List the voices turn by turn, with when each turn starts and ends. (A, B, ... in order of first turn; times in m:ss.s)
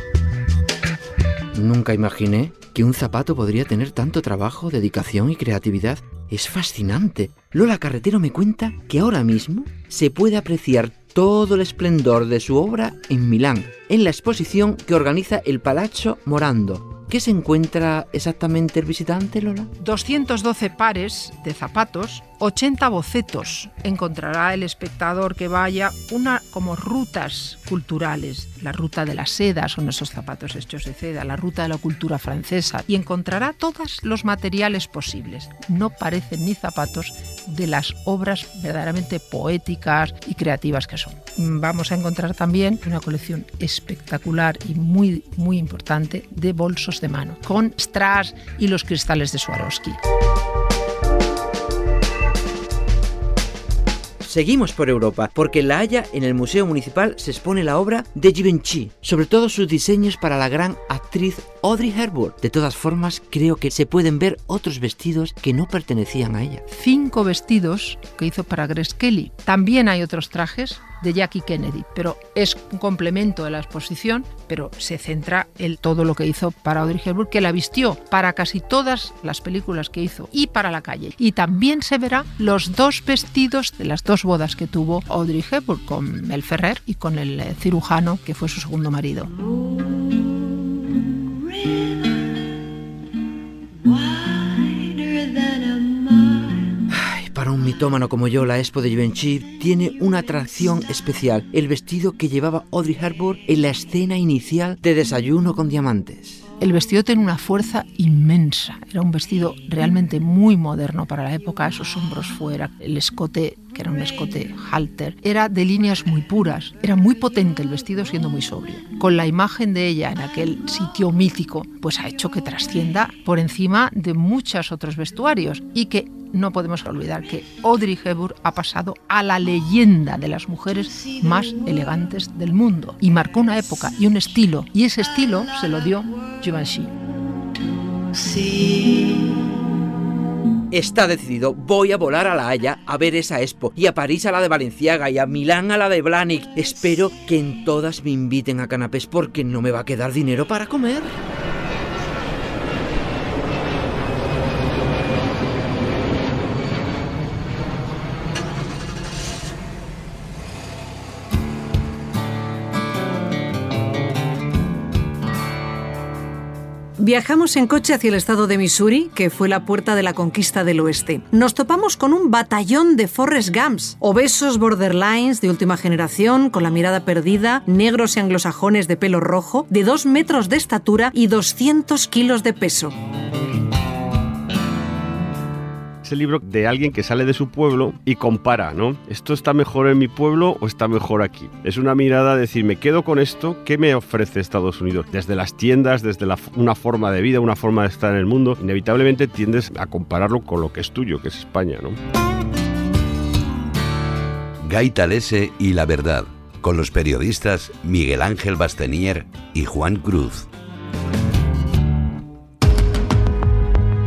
0:01.5-0:19.7 A
0:19.8-0:50.0 B
0:54.2-1:06.6 A
1:06.7-1:29.3 B
1:36.9-1:46.4 A
1:46.6-2:17.0 B
2:20.7-2:31.2 A
2:47.0-3:02.9 C
3:06.0-3:22.0 D
3:24.6-3:30.5 E